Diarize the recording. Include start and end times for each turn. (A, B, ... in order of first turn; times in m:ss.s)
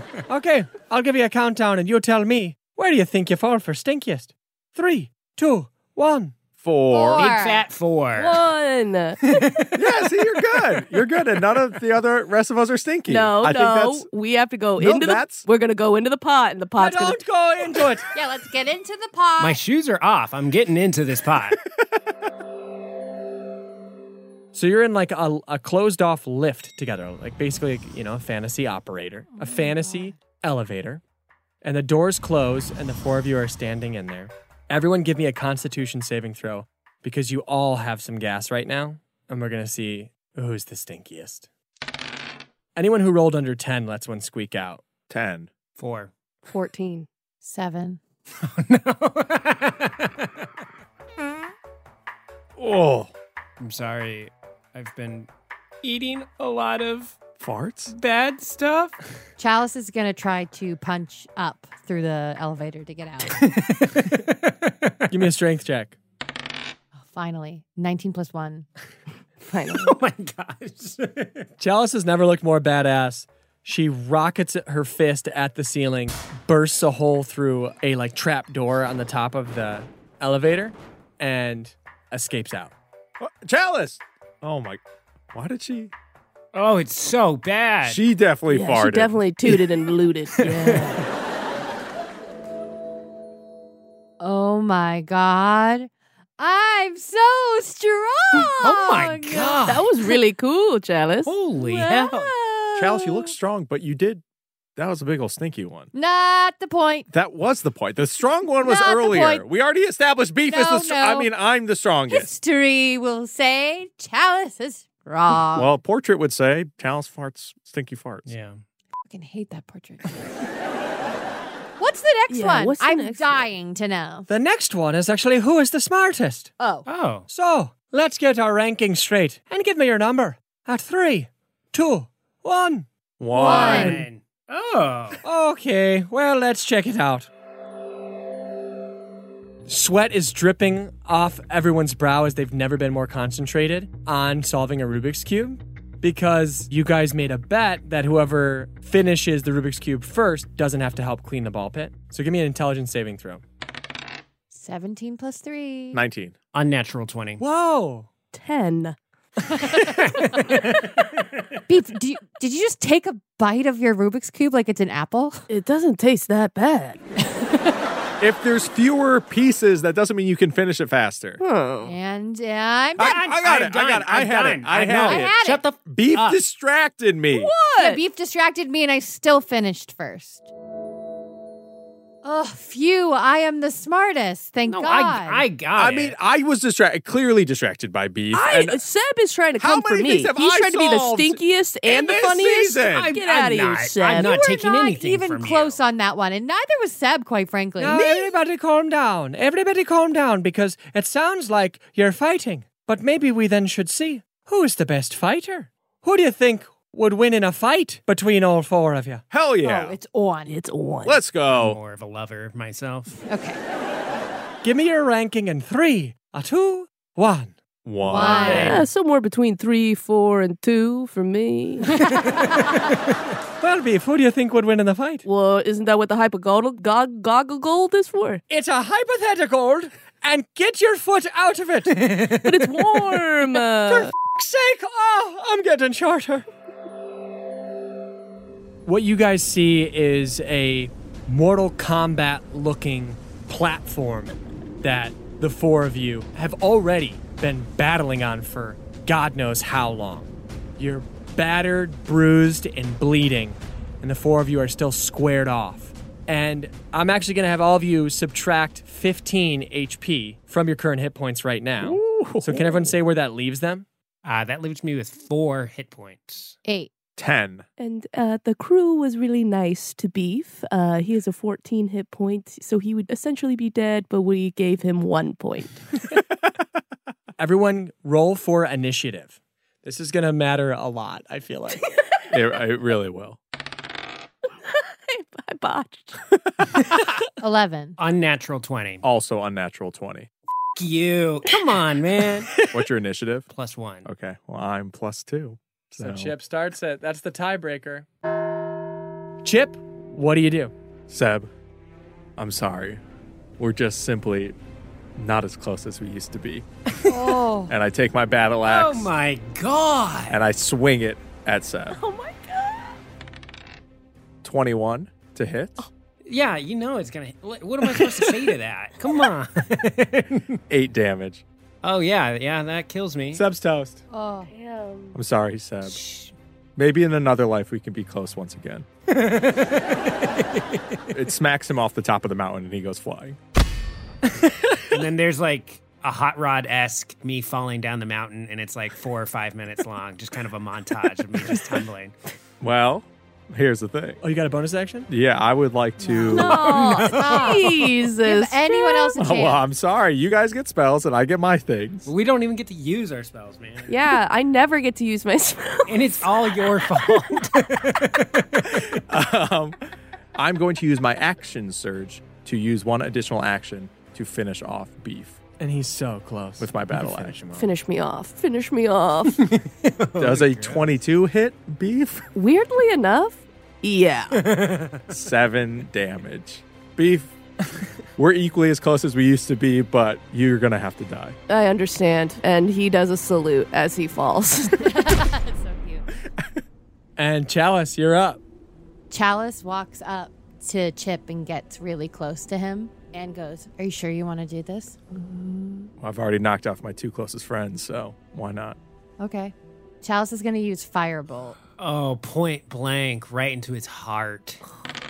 0:00.3-0:06.4 A
0:06.6-0:07.3 B
0:06.9-0:07.6 C
0:07.2-0:08.4 D
0:08.2-0:09.4 E
0:09.3-0:09.8 D
0:09.8-0:14.1 B
0:13.1-0:17.2 E
0:14.8-0:15.5 B
0:16.8-0:18.1 A
0:18.1-0:19.6 C
0:19.4-0:21.6 D
0:24.5-0:31.0 A
0:29.3-0:30.2 C
0:31.6-0:41.5 A
0:42.8-0:44.8 A
0:45.1-0:45.5 B
0:45.8-0:46.1 D
0:46.5-0:47.1 E
0:47.4-0:48.0 C
0:48.4-0:50.3 D
0:52.6-0:53.1 B
0:53.6-0:55.3 D
0:55.8-0:57.2 D
0:57.4-0:57.9 B
0:57.9-0:59.0 D
0:59.4-1:03.4 C
1:03.4-1:05.1 D
1:05.1-1:06.0 A
1:07.0-1:08.7 C
1:09.4-1:10.0 E
1:09.7-1:11.5 D
1:11.6-1:22.7 A
1:23.2-1:24.8 B
1:25.3-1:25.9 B
1:26.5-1:28.0 D
1:27.8-1:29.2 B
1:28.5-1:31.0 E
1:30.4-1:31.0 D
1:34.2-1:39.6 C
1:38.6-1:39.9 D
1:39.6-1:42.1 E
1:41.3-1:42.3 D
1:42.1-1:43.0 C
1:42.8-1:44.2 B
1:44.8-1:45.9 B
1:45.9-1:47.1 C
1:47.1-1:52.3 B
1:48.6-1:49.4 C
1:50.5-1:51.3 C
1:52.1-1:55.7 C
1:55.5-1:58.3 B
1:58.3-1:58.6 D
1:59.1-2:00.0 C
2:01.8-2:04.3 C
2:02.3-2:03.5 E
2:04.3-2:06.5 A
2:06.6-2:06.9 C
2:06.9-2:07.3 D
2:07.3-2:12.9 A
2:13.2-2:14.0 B
2:13.3-2:14.0 C
2:13.4-2:15.2 D
2:13.4-2:14.0 A
2:15.2-2:17.3 A
2:19.7-2:33.4 A
2:34.5-2:36.0 C
2:35.9-2:36.4 B
2:36.5-2:37.4 D
2:37.4-2:38.1 A
2:38.3-2:39.0 E
2:39.5-2:40.0 C
2:39.8-2:41.5 D
2:41.7-2:45.4 C
2:45.5-2:47.0 E
2:48.2-2:51.4 B
2:51.4-2:52.0 E
2:51.8-2:53.2 C
2:53.0-2:55.3 B
2:53.0-2:56.4 D
2:55.0-2:55.6 C
2:55.9-2:57.6 B
2:57.3-2:58.0 E
2:57.8-3:00.5 C
3:02.2-3:05.5 C
3:04.7-3:06.2 D
3:05.8-3:08.8 B
3:08.3-3:14.5 E
3:09.6-3:13.1 B
3:12.9-3:15.8 D
3:14.1-3:18.3 C
3:17.8-3:29.2 A
3:29.3-3:30.0 B
3:29.6-3:30.6 C
3:30.4-3:31.2 E
3:31.0-3:31.8 B
3:31.5-3:33.2 D
3:33.3-3:33.6 C
3:34.6-3:37.6 A
3:37.8-3:38.8 B
3:38.0-3:38.8 C
3:38.2-3:42.0 E
3:42.0-3:42.4 C
3:43.6-3:45.2 A
3:45.2-3:48.4 E
3:48.5-3:52.0 A
3:52.0-3:52.7 D
3:52.4-3:54.1 E
3:53.8-3:56.5 A
3:58.9-4:23.9 A
4:21.8-4:22.9 B
4:24.2-4:26.6 D
4:26.6-4:26.9 C
4:27.2-4:27.6 B
4:27.8-4:35.8 E
4:37.4-4:41.8 A
4:42.3-4:43.4 B
4:45.1-4:46.2 E
4:47.4-4:48.0 C
4:48.0-4:49.0 D
4:49.0-4:50.3 B
4:50.8-4:52.7 D
4:52.7-4:53.5 B
4:53.5-4:54.1 D
4:54.0-4:56.3 B
4:56.0-4:58.1 A
4:59.4-5:00.7 A
5:01.1-5:01.5 B
5:02.4-5:03.0 B
5:03.6-5:04.6 B
5:05.2-5:06.7 B
5:07.1-5:07.7 C
5:07.7-5:09.1 B
5:08.7-5:10.4 D
5:10.3-5:12.0 B
5:11.9-5:13.0 E
5:14.4-5:15.9 B
5:16.2-5:20.6 D
5:20.7-5:21.4 B
5:21.8-5:23.4 D
5:23.4-5:23.9 A
5:23.6-5:23.9 B
5:24.1-5:24.5 C
5:24.5-5:25.2 E
5:25.1-5:26.0 B
5:25.9-5:26.3 D
5:26.8-5:28.9 B
5:29.1-5:31.1 D
5:31.1-5:33.4 B
5:34.9-5:42.2 D
5:42.6-5:44.2 B
5:44.2-5:45.1 A
5:45.1-5:46.7 B
5:46.1-5:49.2 E
5:46.3-5:49.6 C
5:46.4-5:47.8 D
5:49.2-5:52.1 B
5:52.1-5:54.2 D
5:53.9-5:56.9 E
5:55.9-5:59.0 D
5:58.8-5:59.8 B
6:00.4-6:05.4 B
6:05.6-6:07.7 A
6:06.6-6:07.4 B
6:07.6-6:09.4 E
6:09.4-6:10.9 D
6:10.2-6:12.3 B
6:12.4-6:14.4 E
6:14.4-6:15.0 D
6:15.1-6:17.4 B
6:18.2-6:21.4 B
6:21.5-6:25.1 E
6:24.8-6:26.1 C
6:27.2-6:28.4 A
6:29.1-6:35.9 C
6:36.0-6:38.8 B
6:39.2-6:41.6 C
6:41.8-6:44.6 D